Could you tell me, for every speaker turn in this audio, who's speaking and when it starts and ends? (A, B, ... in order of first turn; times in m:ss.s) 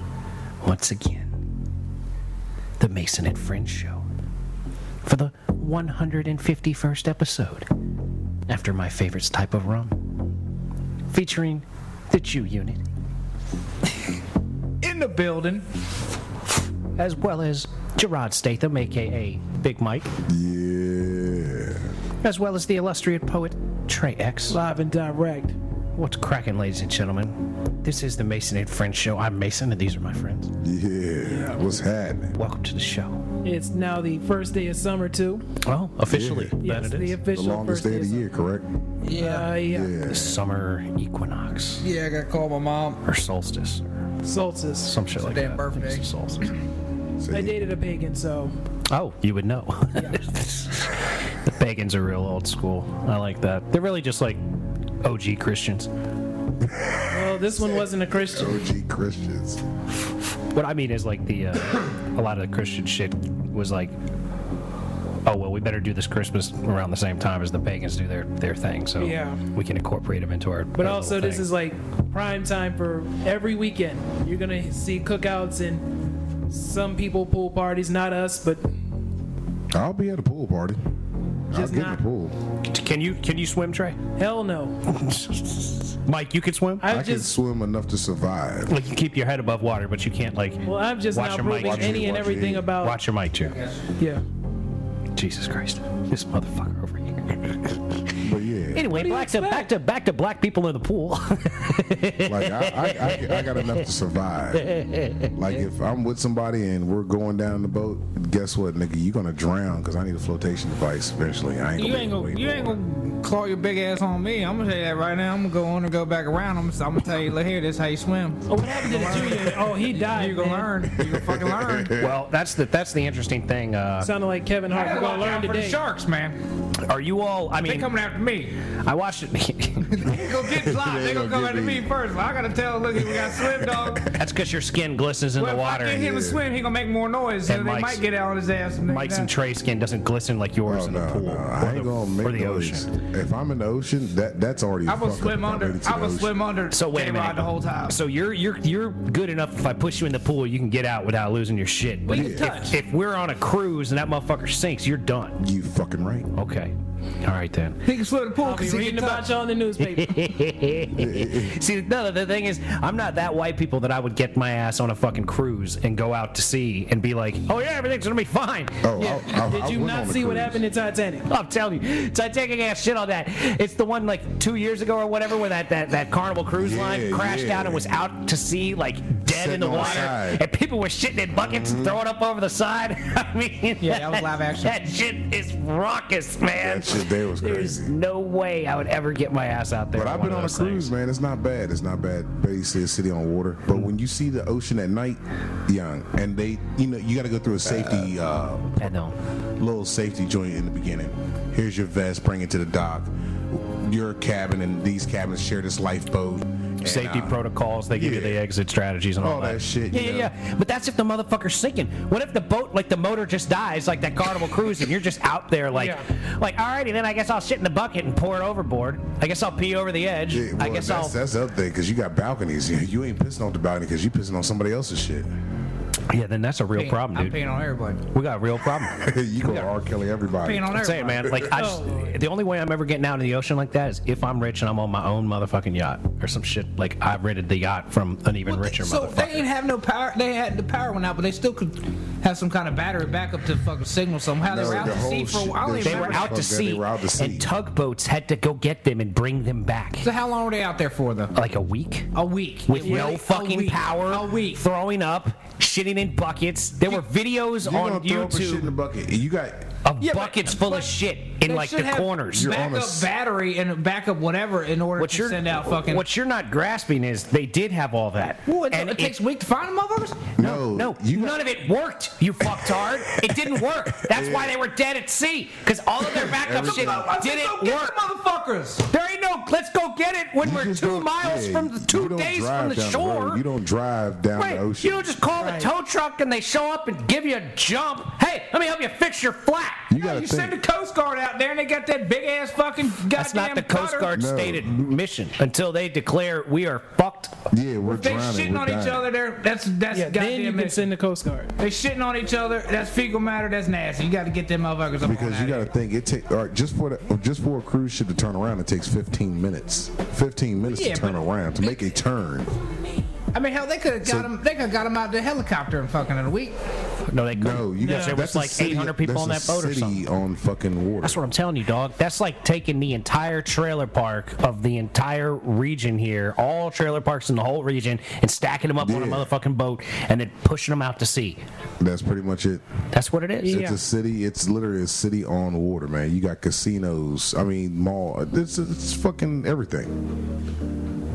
0:00.6-0:01.4 A
0:02.8-0:04.0 A
0:05.0-0:07.7 A
0:08.5-0:10.0 A
0:11.1-0:12.8 A
0:14.8-0:15.6 B
0:17.0-0:20.1 A
0:20.3-0:21.9 C
0:22.2-0:24.6 A
0:24.5-0:25.6 D
0:26.0-0:30.5 A
0:30.6-0:32.4 C
0:31.2-0:31.6 D
0:32.4-0:33.2 A
0:33.4-0:35.5 D
0:35.6-0:37.2 A
0:36.1-0:36.6 C
0:36.6-0:38.2 D
0:37.3-0:38.7 C
0:39.0-0:39.6 B
0:39.1-0:39.9 D
0:39.6-0:40.4 C
0:40.0-0:41.9 A
0:41.8-0:43.0 B
0:43.0-0:44.0 A
0:44.2-0:44.9 D
0:44.8-0:46.5 A
0:45.1-0:46.1 B
0:47.2-0:47.6 C
0:47.3-0:48.5 D
0:48.9-0:54.4 A
0:55.0-0:55.9 A
0:56.6-0:59.6 C
0:57.1-0:58.6 D
1:00.5-1:03.9 A
1:05.2-1:11.5 A
1:09.0-1:09.4 D
1:10.8-1:15.9 D
1:16.5-1:18.6 D
1:19.7-1:20.8 C
1:21.5-1:22.3 C
1:21.5-1:22.0 D
1:22.6-1:24.0 A
1:24.2-1:24.8 D
1:24.9-1:26.8 A
1:26.8-1:27.3 D
1:26.9-1:28.8 C
1:28.7-1:33.6 A
1:30.6-1:33.0 D
1:31.4-1:32.7 C
1:34.0-1:34.2 D
1:35.1-1:38.1 A
1:38.2-1:38.9 C
1:38.7-1:43.8 A
1:38.9-1:39.7 D
1:42.2-1:44.7 C
1:44.6-1:45.3 A
1:45.3-1:52.8 C
1:51.8-2:02.0 B
1:58.5-2:00.8 D
2:00.9-2:02.2 C
2:01.9-2:04.1 A
2:04.0-2:05.8 D
2:04.7-2:06.4 B
2:06.8-2:07.9 A
2:07.6-2:08.6 B
2:08.7-2:10.1 A
2:09.8-2:14.1 B
2:10.3-2:11.9 C
2:13.0-2:14.0 C
2:14.1-2:16.1 A
2:15.4-2:19.3 B
2:16.0-2:16.4 C
2:17.4-2:18.1 A
2:18.9-2:22.9 A
2:20.6-2:26.4 C
2:24.8-2:28.0 B
2:26.7-2:35.4 A
2:32.0-2:32.8 B
2:32.1-2:32.5 C
2:35.4-2:36.3 C
2:36.3-2:37.9 A
2:37.8-2:39.3 B
2:38.4-2:40.4 D
2:39.8-2:48.9 A
2:40.9-2:41.6 C
2:48.8-2:50.6 C
2:49.0-2:51.3 D
2:51.3-3:10.9 A
2:56.6-2:57.9 C
2:59.2-3:00.4 C
2:59.7-3:00.1 D
3:01.3-3:02.0 C
3:03.8-3:04.8 B
3:06.5-3:07.9 C
3:09.9-3:18.9 C
3:18.8-3:19.2 A
3:19.6-3:27.4 C
3:26.8-3:41.2 A
3:27.9-3:28.4 C
3:29.2-3:30.3 C
3:35.7-3:36.0 D
3:40.3-3:45.3 C
3:46.1-3:47.4 A
3:46.7-3:48.1 B
3:48.1-3:49.7 A
3:48.9-3:51.5 C
3:50.4-3:51.2 B
3:50.7-3:59.5 A
3:51.5-3:52.2 D
3:58.4-4:06.4 B
4:04.4-4:07.5 C
4:05.8-4:10.1 A
4:10.0-4:11.3 B
4:11.3-4:12.1 A
4:12.1-4:14.6 B
4:12.7-4:18.7 A
4:17.6-4:19.8 C
4:19.8-4:22.5 A
4:20.0-4:26.0 B
4:22.3-4:23.1 C
4:25.0-4:29.2 A
4:28.5-4:30.3 B
4:30.4-4:31.4 C
4:30.4-4:38.0 A
4:32.5-4:34.6 C
4:36.1-4:38.8 B
4:36.2-4:37.1 C
4:38.9-4:43.4 A
4:40.4-4:44.9 C
4:44.3-4:49.9 A
4:45.4-4:45.7 B
4:49.9-4:50.6 C
4:49.9-4:54.1 B
4:53.1-4:57.4 A
4:54.1-4:54.9 C
4:57.5-4:59.1 C
4:57.8-5:00.9 B
4:59.9-5:01.5 D
5:01.6-5:05.7 B
5:05.0-5:12.6 C
5:10.7-5:11.2 B
5:13.3-5:16.6 B
5:14.0-5:14.3 C
5:17.0-5:20.0 A
5:17.3-5:21.2 C
5:17.8-5:18.2 D
5:21.0-5:31.4 A
5:28.8-5:29.3 C
5:31.8-5:32.6 C
5:32.9-5:33.6 A
5:33.4-5:33.8 D
5:33.4-5:40.0 C